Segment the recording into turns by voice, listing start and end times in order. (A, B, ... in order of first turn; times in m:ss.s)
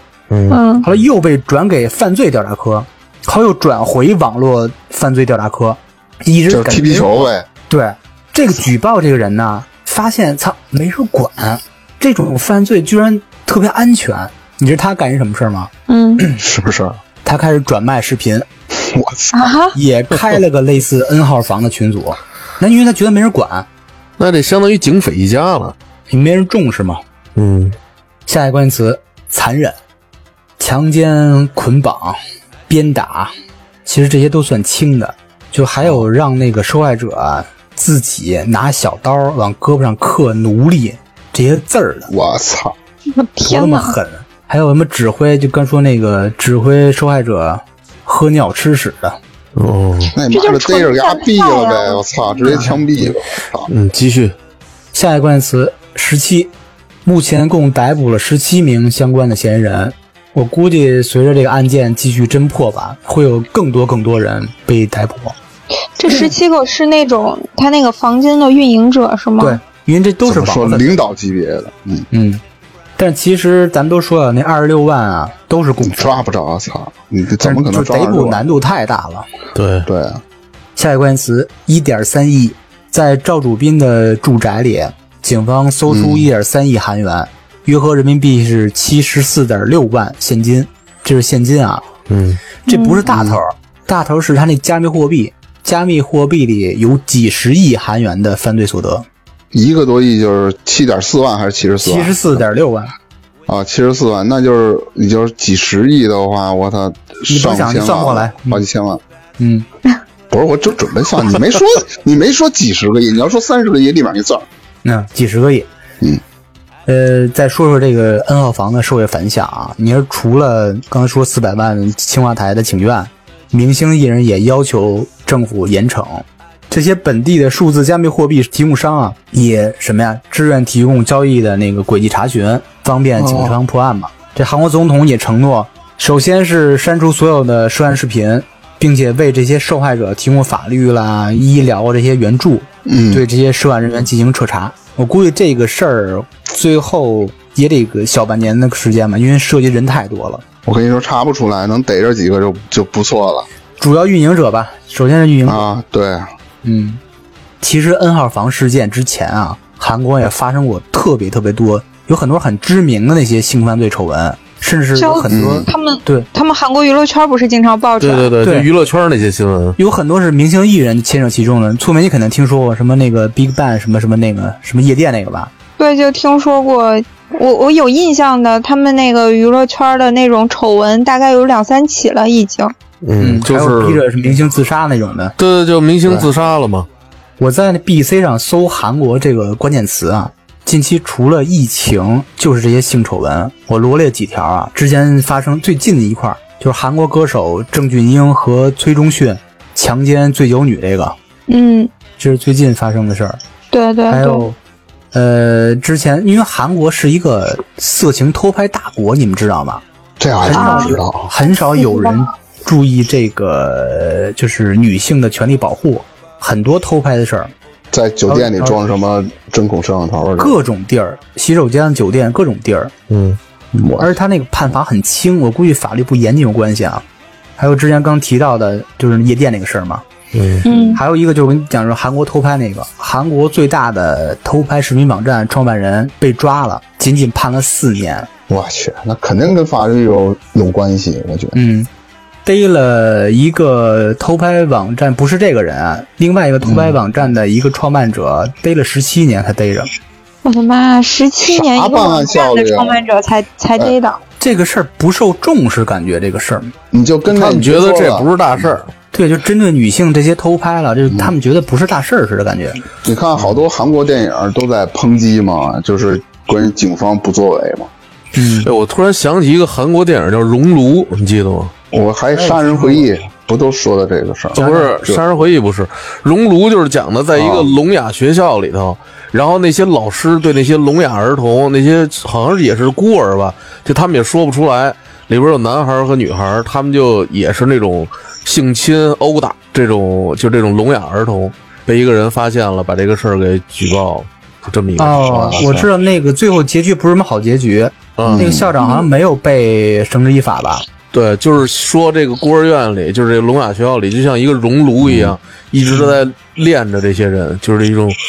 0:00.3-0:00.6 A
0:00.5-0:00.8 B
0:00.8-0:16.4 C
0:06.5-0:07.5 D
0:15.9-0:16.2 B
0:16.4-0:17.0 D
0:17.2-0:18.5 C
0:18.8-0:19.5 D
0:19.3-0:19.8 B
0:19.7-0:23.7 C
0:24.2-0:25.8 A
0:26.1-0:27.0 C
0:27.4-0:27.8 A
0:28.3-0:29.8 C
0:30.6-0:33.3 C
0:33.8-0:42.1 C
0:42.1-0:42.8 D
0:43.2-0:44.0 B
0:43.5-0:49.2 C
0:49.6-0:50.2 A
0:50.1-0:53.7 D
0:50.3-0:52.6 B
0:52.5-0:52.8 C
0:53.7-0:54.3 A
0:54.9-0:56.5 C
0:57.0-1:05.4 C
1:06.0-1:09.6 B
1:09.4-1:11.0 C
1:10.2-1:12.1 D
1:12.1-1:12.4 C
1:13.0-1:16.2 C
1:15.8-1:18.4 D
1:17.4-1:19.3 C
1:19.6-1:19.9 A
1:19.8-1:20.2 D
1:20.8-1:31.9 C
1:25.9-1:26.3 D
1:32.1-1:32.4 A
1:32.6-1:39.1 C
1:32.7-1:33.0 B
1:33.1-1:33.4 D
1:39.5-1:42.4 D
1:41.8-1:42.9 C
1:43.5-1:49.0 D
1:47.3-1:48.6 C
1:49.4-1:49.7 C
1:50.3-1:54.5 D
1:54.8-1:55.7 C
1:56.9-2:30.4 C
2:13.2-2:13.6 D
2:22.8-2:23.2 D
2:30.7-2:33.5 D
2:33.8-2:35.6 C
2:35.5-2:36.3 D
2:36.6-2:37.0 C
2:37.6-2:46.3 C
2:45.0-2:48.3 B
2:45.3-2:45.7 D
2:48.0-2:49.8 A
2:48.4-2:48.7 C
2:49.8-2:55.5 C
2:55.8-3:02.7 B
3:03.0-3:04.0 A
3:03.2-3:05.4 C
3:05.4-3:06.9 A
3:07.4-3:21.2 C
3:21.5-3:21.9 B
3:22.2-3:23.4 C
3:23.7-3:24.4 B
3:24.1-3:24.6 C
3:25.1-3:29.8 C
3:30.2-3:31.3 D
3:30.4-3:37.5 C
3:30.6-3:31.0 B
3:31.8-3:32.2 B
3:37.9-3:40.6 D
3:38.3-3:38.8 C
3:40.4-3:42.9 C
3:43.1-3:43.4 A
3:43.7-3:44.1 D
3:44.0-3:47.0 C
3:47.6-3:50.0 C
3:50.3-3:50.7 A
3:50.6-3:51.0 B
3:50.9-3:58.3 C
3:58.5-4:01.6 D
4:01.6-4:01.9 C
4:02.4-4:09.9 C
4:06.6-4:07.0 D
4:10.4-4:14.2 B
4:11.4-4:13.0 D
4:14.4-4:16.7 C
4:16.9-4:18.7 D
4:17.3-4:18.9 A
4:19.1-4:22.8 C
4:23.0-4:27.9 D
4:28.4-4:28.7 C
4:28.6-4:31.7 A
4:31.9-4:35.2 D
4:32.4-4:33.1 C
4:34.6-4:34.9 C
4:34.6-4:55.7 A
4:37.4-4:37.7 D
4:55.0-5:00.8 C
4:55.3-4:55.8 D
4:58.2-4:58.6 A
4:58.2-4:58.7 D
5:01.1-5:08.2 A
5:05.0-5:05.4 D